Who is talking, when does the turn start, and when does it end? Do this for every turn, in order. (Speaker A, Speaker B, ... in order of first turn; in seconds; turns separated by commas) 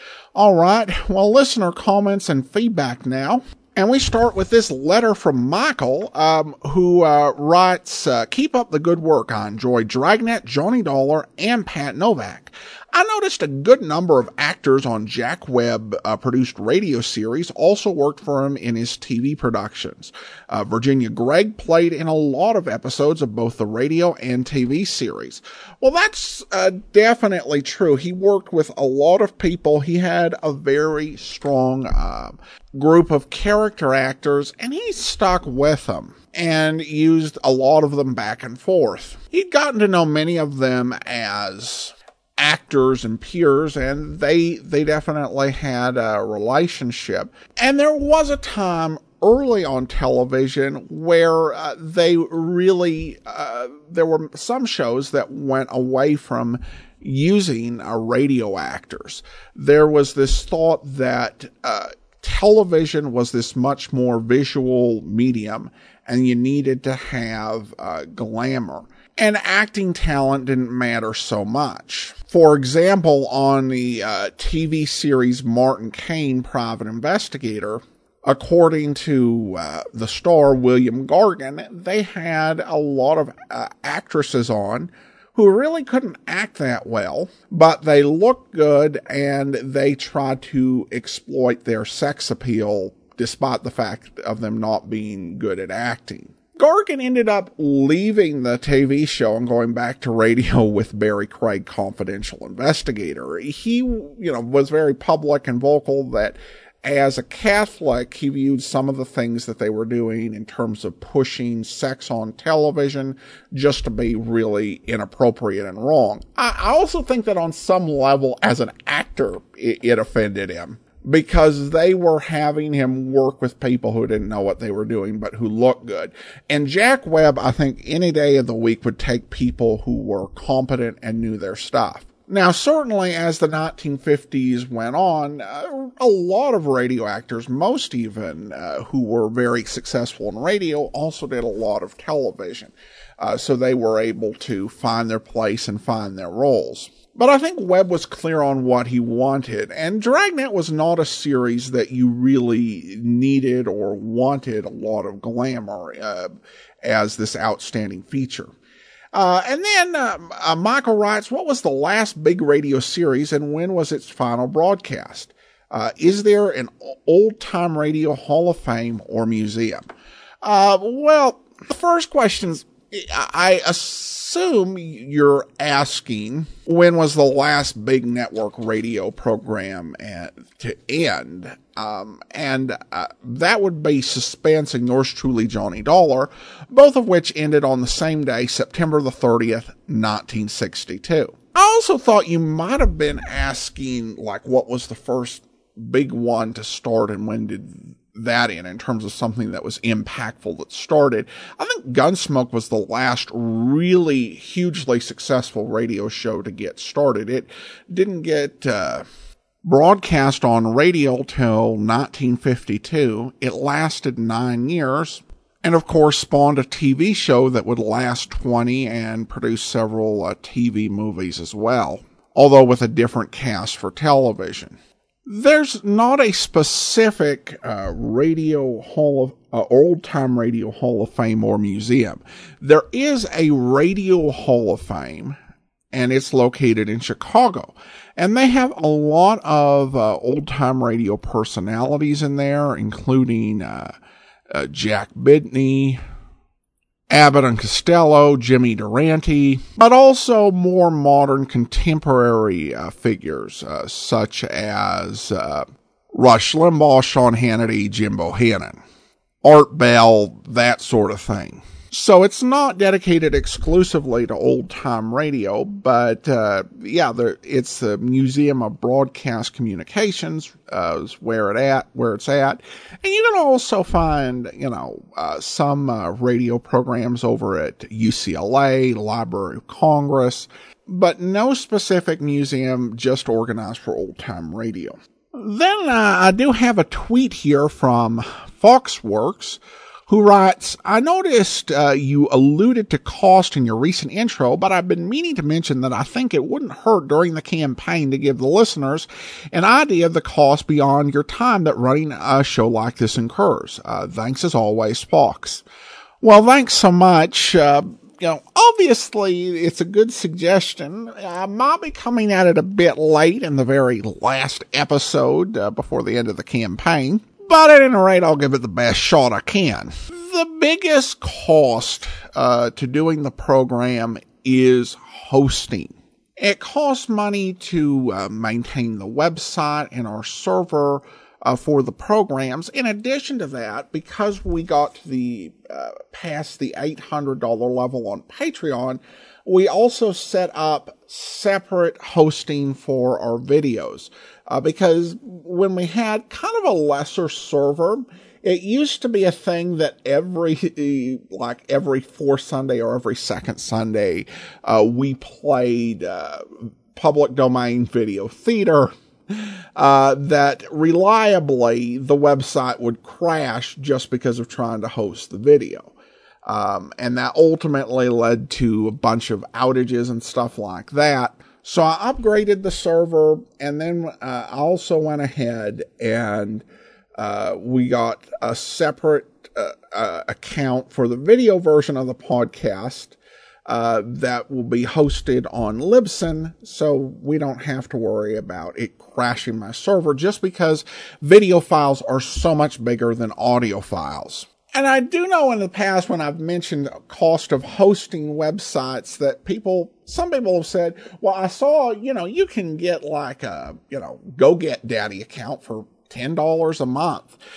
Speaker A: 0.3-158.5, Speaker A: 159.1-169.8, Speaker A: 170.4-209.1, Speaker A: 209.6-235.4, Speaker A: 235.9-243.9, Speaker A: 244.5-246.0, Speaker A: 247.1-258.8, Speaker A: 259.4-305.6, Speaker A: 306.2-365.9, Speaker A: 366.5-376.6, Speaker A: 377.2-383.2, Speaker A: 383.7-407.4